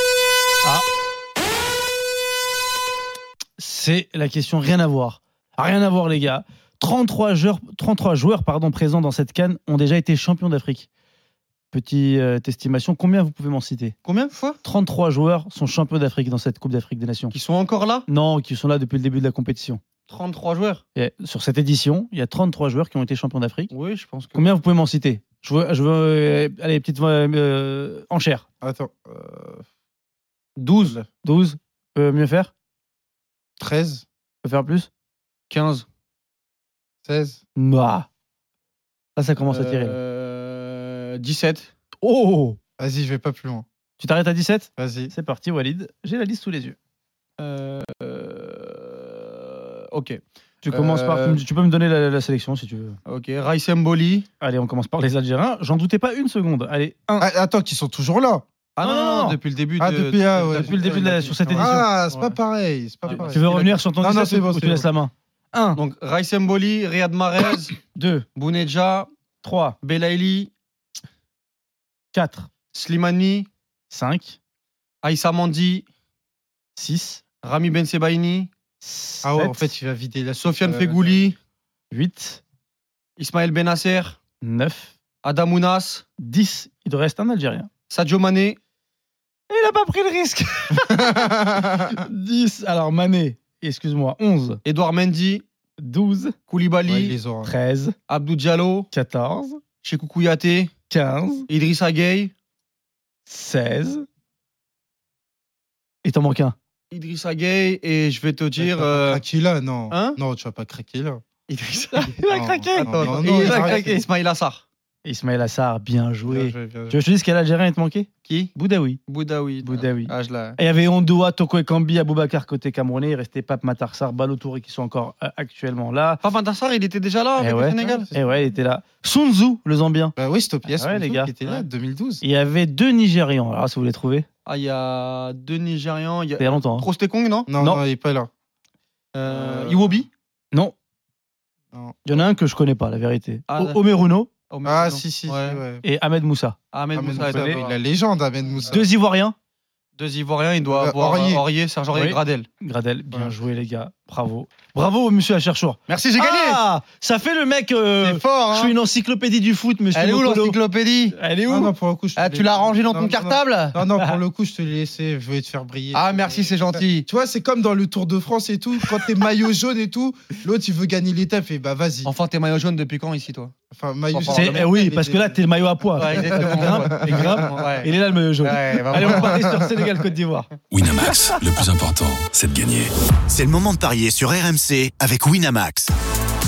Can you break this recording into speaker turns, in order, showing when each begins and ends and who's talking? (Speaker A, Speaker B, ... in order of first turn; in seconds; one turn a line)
Speaker A: 3.6-10.9
Speaker A: 11.7-14.0
Speaker B: 14.1-14.6
Speaker A: 14.6-17.3
Speaker B: 17.3-18.1
Speaker A: 18.1-19.8
Speaker B: 20.1-20.8
Speaker A: 21.0-23.7
Speaker B: 23.7-24.5
Speaker A: 24.4-28.4
Speaker C: 28.6-29.6
Speaker B: 30.6-31.0
Speaker C: 30.8-31.1
Speaker A: 31.2-32.5
Speaker C: 33.6-34.1
Speaker A: 34.4-34.9
Speaker B: 35.5-35.9
Speaker C: 37.0-37.4
Speaker A: 37.6-38.1
Speaker A: 39.2-40.0
Speaker B: 39.5-41.7
Speaker A: 42.0-42.6
Speaker C: 42.8-43.6
Speaker A: 44.0-46.8
Speaker C: 44.8-45.1
Speaker B: 47.4-51.4
Speaker A: 50.6-53.0
Speaker B: 53.1-54.3
Speaker A: 54.4-57.3
Speaker C: 57.2-58.5
Speaker B: 58.8-62.4
Speaker A: 58.8-59.4
Speaker C: 59.8-64.9
Speaker A: 60.4-61.9
Speaker B: 63.1-63.8
Speaker A: 63.1-65.8
Speaker B: 65.8-67.8
Speaker A: 67.9-68.2
Speaker B: 68.4-69.1
Speaker A: 69.4-69.8
Speaker B: 69.8-70.5
Speaker A: 72.1-72.5
Speaker B: 72.7-73.5
Speaker A: 73.9-74.4
Speaker B: 75.0-75.9
Speaker A: 76.8-77.2
Speaker B: 77.4-78.5
Speaker A: 78.8-79.7
Speaker C: 79.2-81.2
Speaker B: 80.3-81.4
Speaker A: 81.9-82.4
Speaker B: 83.2-84.2
Speaker A: 84.4-84.9
Speaker B: 85.2-86.1
Speaker A: 86.2-87.7
Speaker B: 87.9-88.6
Speaker A: 89.5-94.6
Speaker C: 90.9-91.6
Speaker B: 94.7-95.4
Speaker A: 95.8-96.4
Speaker B: 96.5-97.2
Speaker C: 96.8-97.5
Speaker A: 97.4-98.0
Speaker B: 98.1-98.9
Speaker A: 98.9-99.6
Speaker B: 99.8-100.7
Speaker A: 100.9-101.5
Speaker B: 101.5-102.3
Speaker A: 103.3-104.0
Speaker A: 106.0-106.6
Speaker B: 106.9-109.2
Speaker C: 108.6-111.2
Speaker B: 109.9-110.2
Speaker B: 111.5-112.1
Speaker A: 111.9-114.0
Speaker C: 112.3-113.9
Speaker B: 112.8-114.6
Speaker A: 115.0-119.0
Speaker C: 116.3-117.0
Speaker B: 118.2-118.5
Speaker B: 119.1-120.6
Speaker A: 119.6-126.2
Speaker B: 126.2-128.1
Speaker A: 127.4-130.1
Speaker C: 127.8-128.6
Speaker C: 130.2-132.2
Speaker A: 130.7-131.3
Speaker A: 132.2-134.3
Speaker B: 134.5-137.5
Speaker A: 136.4-136.9
Speaker C: 137.5-138.3
Speaker B: 139.2-140.1
Speaker C: 139.3-140.0
Speaker C: 141.7-142.0
Speaker A: 142.1-144.3
Speaker B: 143.5-143.8
Speaker B: 144.5-145.6
Speaker C: 144.7-145.8
Speaker A: 145.8-146.6
Speaker B: 146.7-147.8
Speaker C: 146.9-148.9
Speaker A: 147.1-147.6
Speaker A: 148.7-149.3
Speaker B: 150.0-152.5
Speaker C: 150.7-151.4
Speaker A: 151.9-160.6
Speaker B: 155.9-156.6
Speaker B: 158.0-158.8
Speaker B: 159.9-161.2
Speaker A: 161.2-161.7
Speaker C: 161.5-172.1
Speaker B: 162.2-163.8
Speaker B: 165.9-167.1
Speaker B: 172.0-173.5
Speaker C: 173.7-175.4
Speaker B: 174.1-174.8
Speaker A: 174.3-181.4
Speaker B: 176.0-179.4
Speaker C: 176.1-177.4
Speaker C: 179.0-179.7
Speaker D: 180.7-182.9
Speaker E: 183.3-185.9